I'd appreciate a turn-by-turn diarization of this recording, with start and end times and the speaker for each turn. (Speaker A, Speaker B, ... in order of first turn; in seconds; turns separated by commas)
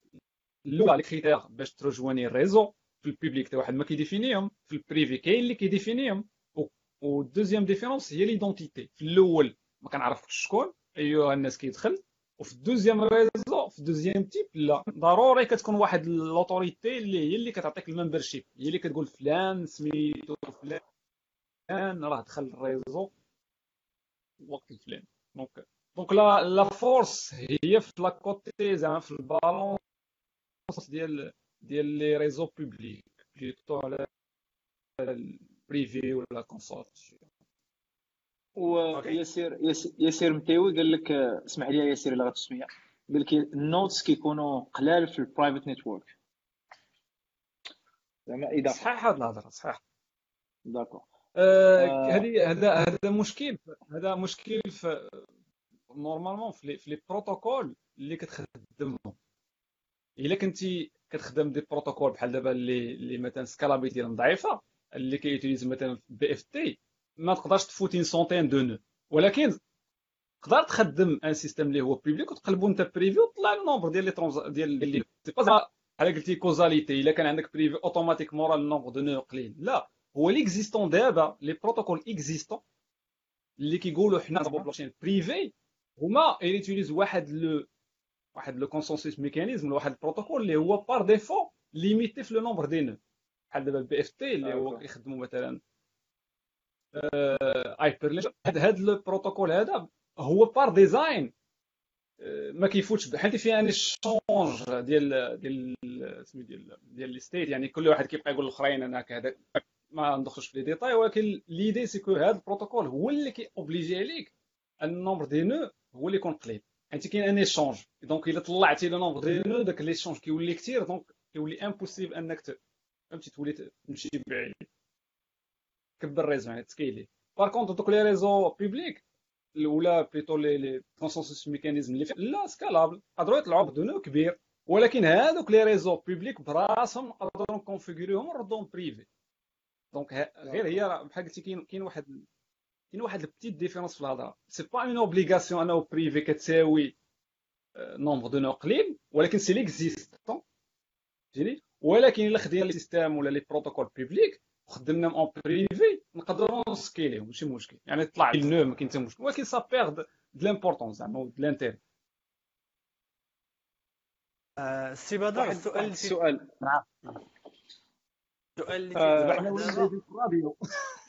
Speaker A: 0.7-20.8, Speaker A: 21.7-23.1, Speaker A: 24.4-29.8, Speaker A: 30.7-34.1, Speaker A: 35.0-37.2, Speaker B: 38.5-46.1, Speaker A: 38.9-39.2, Speaker B: 48.3-48.8, Speaker A: 48.7-49.8, Speaker B: 50.6-51.0, Speaker A: 51.3-55.3, Speaker B: 51.8-52.3, Speaker A: 55.9-59.1, Speaker A: 60.2-69.6, Speaker A: 70.4-82.6, Speaker A: 83.6-87.7, Speaker A: 88.3-93.0, Speaker A: 93.5-95.6, Speaker B: 94.4-94.8, Speaker A: 96.9-101.3, Speaker A: 102.2-122.6, Speaker A: 123.1-124.7, Speaker A: 126.0-129.0, Speaker A: 129.5-139.1, Speaker A: 139.9-142.2, Speaker B: 140.4-140.8, Speaker A: 142.9-146.9, Speaker A: 147.8-150.4, Speaker A: 151.3-161.8, Speaker C: 164.6-166.2, Speaker B: 165.3-166.5, Speaker C: 168.6-169.9, Speaker B: 168.9-169.8, Speaker A: 169.1-170.9